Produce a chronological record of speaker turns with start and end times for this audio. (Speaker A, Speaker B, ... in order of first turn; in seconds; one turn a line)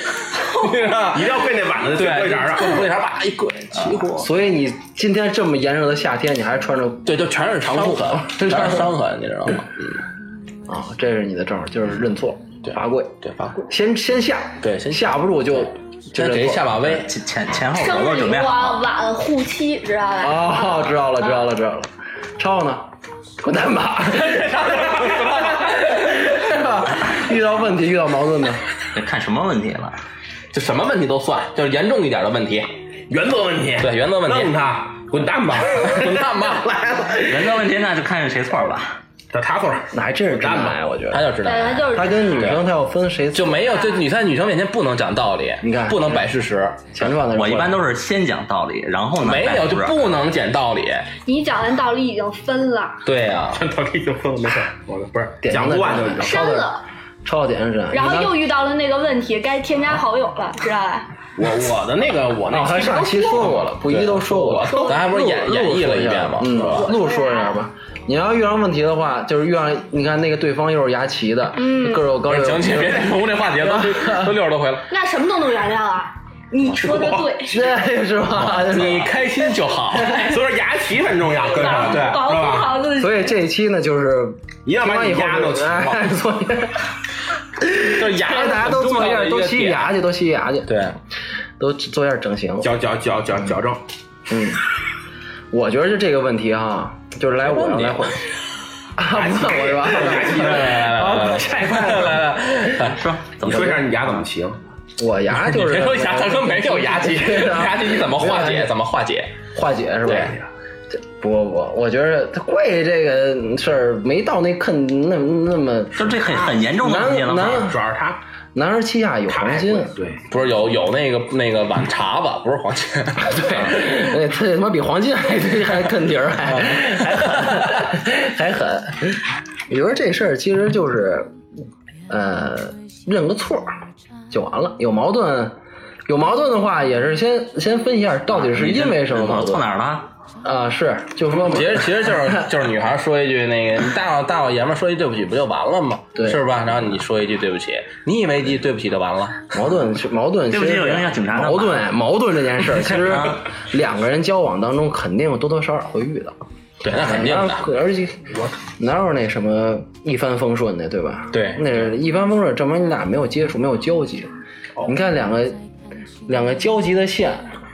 Speaker A: 0.3-1.4
Speaker B: 1.0-2.9
Speaker A: 1.9-4.2
Speaker C: 3.8-4.1
Speaker D: 4.2-7.1
Speaker A: 7.0-10.0
Speaker D: 7.7-8.9
Speaker D: 10.7-16.9
Speaker A: 12.6-13.6
Speaker A: 14.6-17.1
Speaker C: 16.9-18.8
Speaker E: 17.7-21.1
Speaker D: 20.2-22.9
Speaker D: 23.4-28.6
Speaker A: 24.2-25.8
Speaker C: 28.9-30.0
Speaker A: 30.5-32.7
Speaker B: 33.1-37.6
Speaker A: 33.8-34.5
Speaker A: 35.1-36.7
Speaker C: 37.3-39.0
Speaker B: 39.3-40.8
Speaker D: 39.9-41.3
Speaker A: 41.1-42.6
Speaker E: 41.4-42.3
Speaker D: 41.9-43.8
Speaker A: 43.3-46.9
Speaker E: 43.7-44.0
Speaker D: 45.6-46.2
Speaker D: 46.9-47.9
Speaker C: 47.2-50.0
Speaker A: 49.2-51.1
Speaker E: 51.2-53.0
Speaker A: 53.0-53.6
Speaker B: 53.5-56.4
Speaker D: 55.4-56.7
Speaker E: 56.2-56.8
Speaker D: 57.2-58.4
Speaker E: 57.9-61.1
Speaker B: 61.4-63.6
Speaker D: 62.5-74.4
Speaker A: 63.9-66.9
Speaker B: 64.4-64.8
Speaker E: 64.6-65.1
Speaker E: 66.6-67.6
Speaker E: 71.5-72.1
Speaker A: 72.2-74.8
Speaker E: 74.9-77.8
Speaker B: 76.7-77.3
Speaker D: 77.4-79.2
Speaker A: 78.3-80.3
Speaker B: 80.0-82.8
Speaker E: 81.5-83.3
Speaker A: 81.6-82.3
Speaker D: 83.0-86.8
Speaker B: 84.7-86.0
Speaker D: 87.6-90.8
Speaker A: 87.8-89.9
Speaker A: 90.7-91.0
Speaker D: 91.6-92.7
Speaker B: 92.6-93.8
Speaker D: 94.3-94.6
Speaker D: 95.5-98.2
Speaker A: 97.4-98.0
Speaker D: 99.0-102.3
Speaker B: 99.1-100.8
Speaker A: 100.0-103.0
Speaker C: 102.9-103.7
Speaker B: 103.4-104.6
Speaker D: 103.5-103.8
Speaker D: 105.0-108.7
Speaker A: 105.3-109.3
Speaker D: 109.5-116.2
Speaker A: 110.0-110.3
Speaker C: 115.9-117.6
Speaker D: 116.8-117.8
Speaker B: 117.4-118.2
Speaker D: 118.5-119.9
Speaker B: 119.3-120.2
Speaker A: 120.3-123.7
Speaker D: 123.2-131.3
Speaker A: 126.6-126.8
Speaker D: 132.1-133.7
Speaker D: 134.3-135.6
Speaker D: 136.1-139.7
Speaker C: 138.4-140.1
Speaker D: 140.4-142.4
Speaker A: 141.3-149.5
Speaker D: 146.2-146.4
Speaker D: 149.5-156.3
Speaker C: 150.5-151.8
Speaker A: 156.8-157.7
Speaker D: 156.9-164.3
Speaker A: 161.3-161.6
Speaker D: 164.8-165.6
Speaker D: 166.3-167.5